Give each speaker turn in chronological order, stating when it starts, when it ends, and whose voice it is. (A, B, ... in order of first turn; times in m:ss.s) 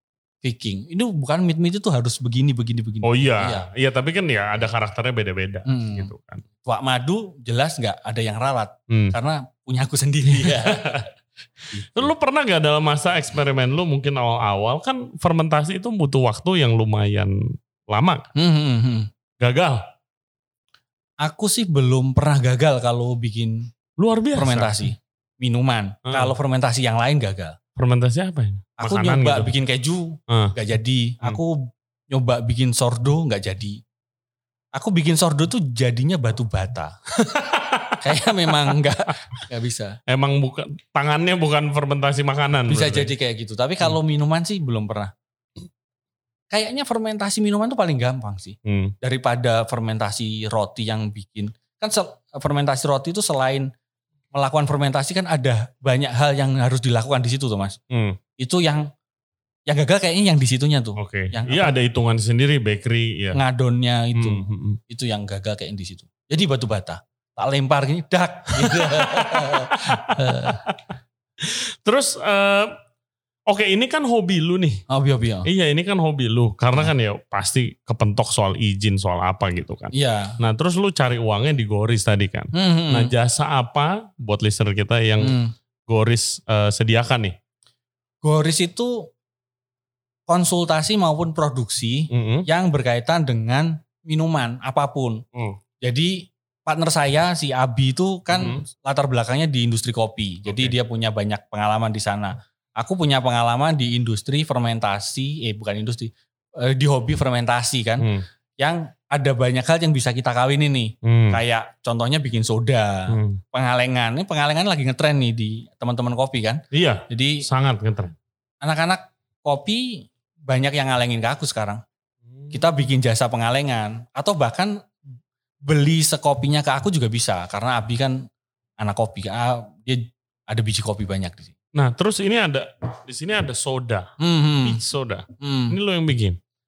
0:00.4-0:03.7 A
0:03.0-0:06.4 B
0:05.7-0:06.1 A
0:06.6-0:11.1 A
0:10.3-0:11.0 B
0:11.7-0:12.1 A
0:11.9-0:17.4 B
0:17.9-0:18.3 B
0:18.4-0:19.1 A
0:19.4-0:19.8 B
0:21.2-0:23.7 A
0:24.0-0:24.9 B
0:24.4-0:27.6 A
0:26.1-0:26.3 B
0:27.8-0:29.5 B
0:28.8-0:33.8 A
0:30.3-0:30.5 B
0:34.8-0:36.9 A
0:37.2-0:38.8 B
0:38.0-0:40.0 A
0:40.1-0:43.1 B
0:42.7-0:45.1 A
0:46.5-0:53.7 A
0:48.6-0:48.9 B
0:54.3-0:57.8 A
0:57.9-0:58.2 B
0:58.4-0:58.9 A
0:59.7-1:01.7 A
1:01.0-1:03.4 B
1:03.3-1:10.6 A
1:04.2-1:04.8 B
1:08.6-1:12.8 B
1:13.5-1:14.8 B
1:14.9-1:15.5 A
1:15.4-1:25.4 B
1:19.9-1:20.4 A
1:22.6-1:23.1 A
1:25.2-1:25.5 A
1:25.9-1:27.4 B
1:28.2-1:29.1 A
1:30.3-1:35.2 A
1:32.1-1:32.5 B
1:35.8-1:57.4 A
1:38.3-1:38.6 B
1:40.4-1:40.8 B
1:48.0-1:48.2 B
1:51.0-1:51.4 B
1:53.1-1:53.4 B
1:56.7-1:58.2 B
1:58.6-2:01.8 A
2:02.3-2:02.7 B
2:02.5-2:04.9 A
2:05.6-2:08.2 A
2:08.8-2:11.5 A
2:11.8-2:14.1 B
2:14.2-2:14.8 A
2:14.6-2:16.4 B
2:15.4-2:15.8 A